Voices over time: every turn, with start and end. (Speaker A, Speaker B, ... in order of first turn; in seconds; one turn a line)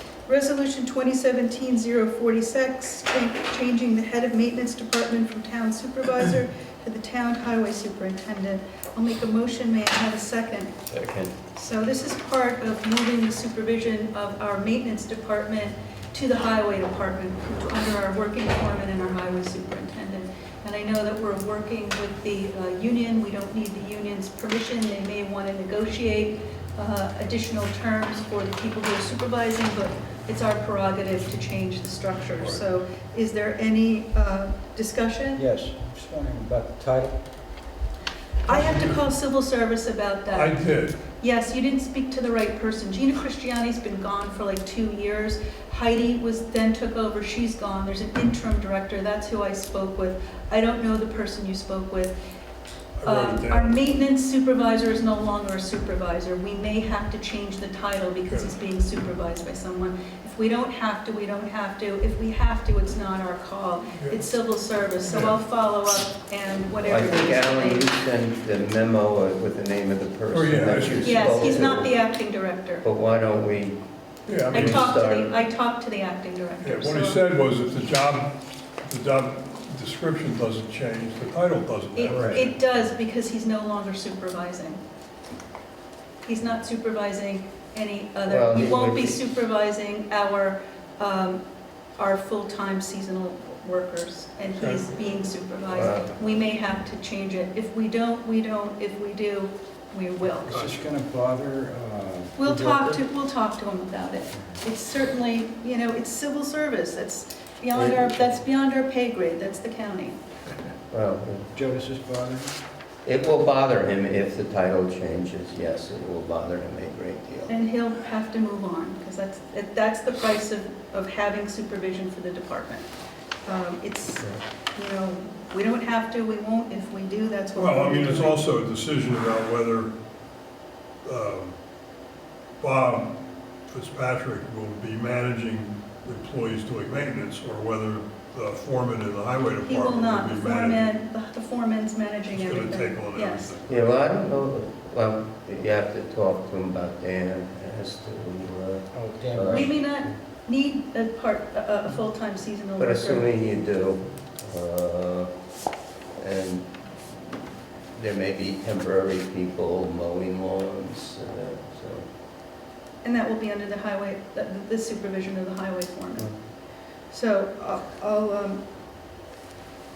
Speaker A: 0.3-10.8
Speaker B: 10.9-11.3
Speaker A: 11.5-35.4
Speaker C: 32.4-32.7
Speaker D: 35.4-37.2
Speaker A: 38.5-40.6
Speaker C: 38.5-38.9
Speaker C: 40.3-41.0
Speaker A: 41.1-52.1
Speaker C: 53.0-54.0
Speaker A: 53.0-67.9
Speaker C: 58.3-58.5
Speaker C: 64.0-64.3
Speaker C: 65.1-65.3
Speaker B: 66.8-72.0
Speaker C: 70.3-71.7
Speaker A: 71.0-72.8
Speaker B: 72.8-73.8
Speaker C: 74.3-75.0
Speaker B: 74.5-75.3
Speaker A: 74.5-77.2
Speaker C: 76.6-82.6
Speaker A: 82.0-84.8
Speaker D: 82.1-82.4
Speaker A: 86.2-91.4
Speaker B: 88.3-89.2
Speaker A: 92.0-100.5
Speaker C: 94.6-94.9
Speaker B: 95.7-96.1
Speaker C: 100.5-100.8
Speaker D: 100.5-103.0
Speaker A: 102.4-110.2
Speaker B: 107.7-108.2
Speaker B: 110.9-111.5
Speaker D: 111.5-112.5
Speaker B: 113.0-117.5
Speaker A: 117.5-122.9
Speaker A: 123.5-128.4
Speaker C: 127.6-129.9
Speaker C: 131.1-131.6
Speaker C: 132.6-140.9
Speaker A: 139.6-143.6
Speaker C: 142.3-143.9
Speaker B: 143.7-150.1
Speaker D: 148.9-149.8
Speaker A: 149.5-153.3
Speaker B: 152.8-155.3
Speaker B: 156.2-157.2
Speaker B: 157.9-162.1
Speaker A: 163.0-166.4
Speaker A: 167.0-168.6